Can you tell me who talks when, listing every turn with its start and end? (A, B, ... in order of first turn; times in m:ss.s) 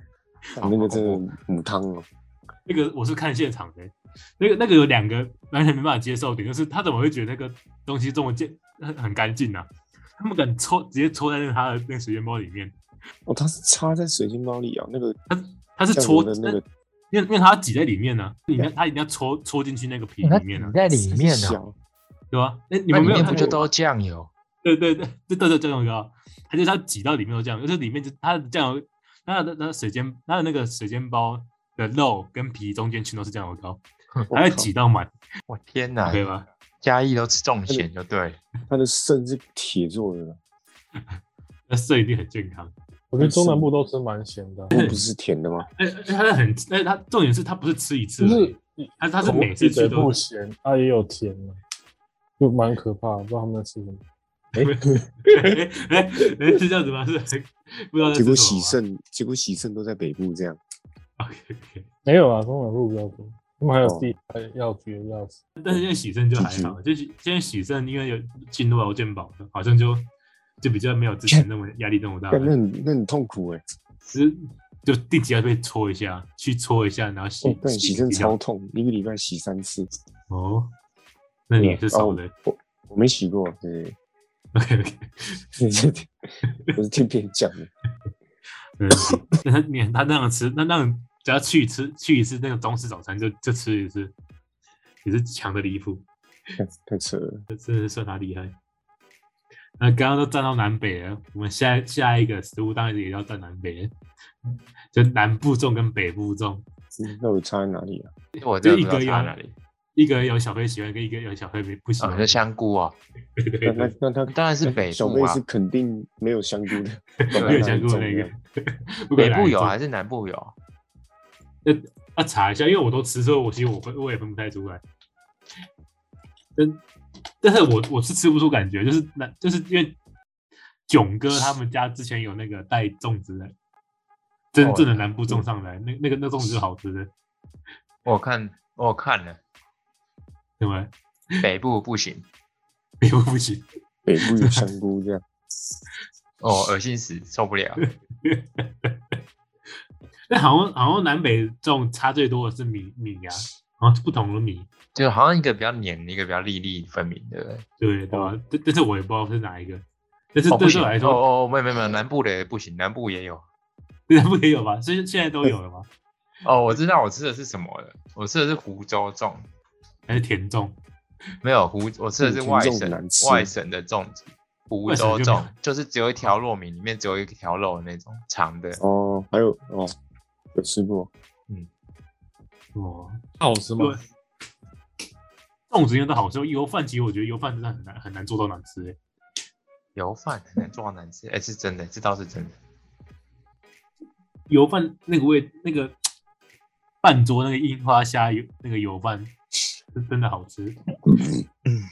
0:00.6-0:01.2 A
0:00.6-0:02.1 B
0:02.6-0:12.7 C
0:13.2-0:15.2 B
0:15.3-0:16.6 C
0:15.9-0:16.6 B
0:17.1-0:20.7 C
0:20.2-0:21.6 A
0:21.1-0:21.8 B
0:22.3-0:23.6 C
0:22.9-0:24.3 A
0:23.0-0:23.6 B
0:24.6-0:35.1 C
0:34.3-0:34.7 B
0:35.5-0:36.2 A
0:36.0-0:36.5 C
0:36.8-0:38.4 A
0:38.7-0:40.4 B
0:41.7-0:42.7 C
0:43.1-0:44.7 D
0:43.2-0:43.7 B
0:44.7-0:45.7 B
0:44.7-0:45.0 C
0:45.8-0:50.2 C
0:48.2-0:51.6 D
0:52.4-0:54.0 D
0:54.6-0:55.0 B
0:54.6-0:58.8 C
0:58.1-1:00.6 B
1:01.2-1:01.9 C
1:02.0-1:05.4 D
1:03.8-1:04.1 B
1:05.6-1:10.1 C
1:06.4-1:06.8 B
1:10.6-1:12.5 C
1:12.3-1:13.6 B
1:14.1-1:18.4 C
1:17.4-1:19.9 B
1:20.3-1:20.7 C
1:21.5-1:22.3 C
1:21.6-1:24.0 B
1:24.5-1:25.4 C
1:25.6-1:26.1 B
1:26.7-1:27.7 B
1:28.8-1:34.1 C
1:35.0-1:36.0 C
1:36.6-1:37.4 B
1:37.5-1:38.5 C
1:39.8-1:43.9 C
1:44.9-1:46.6 C
1:47.0-1:48.1 B
1:48.4-1:49.5 A
1:48.6-1:49.3 C
1:50.0-1:52.4 C
1:52.0-1:53.0 A
1:53.4-1:54.0 C
1:53.6-1:58.3 B
1:54.3-1:55.4 A
1:57.2-1:59.7 C
1:57.3-1:57.7 A
1:59.2-2:00.5 A
2:01.6-2:04.8 C
2:06.6-2:06.8 C
2:07.4-2:10.0 C
2:10.9-2:13.5 C
2:14.5-2:17.1 C
2:14.6-2:15.1 A
2:18.0-2:19.4 A
2:20.6-2:21.4 C
2:21.4-2:22.2 A
2:23.0-2:23.6 C
2:24.0-2:25.2 B
2:24.4-2:24.6 C
2:26.4-2:27.8 A
2:27.8-2:29.2 C
2:30.3-2:34.7 C
2:34.9-2:37.6 A
2:37.8-2:41.2 C
2:40.5-2:43.4 A
2:44.1-2:45.9 C
2:46.4-2:49.5 A
2:50.1-2:50.8 C
2:51.4-2:58.8 A
2:52.2-2:53.5 B
2:54.9-2:55.5 C
2:58.8-2:59.9 B
3:00.5-3:01.1 B
3:02.7-3:03.2 C
3:03.4-3:04.0 D
3:05.7-3:09.0 C
3:10.0-3:12.5 A
3:14.5-3:15.9 C
3:17.0-3:19.3 C
3:19.9-3:20.8 C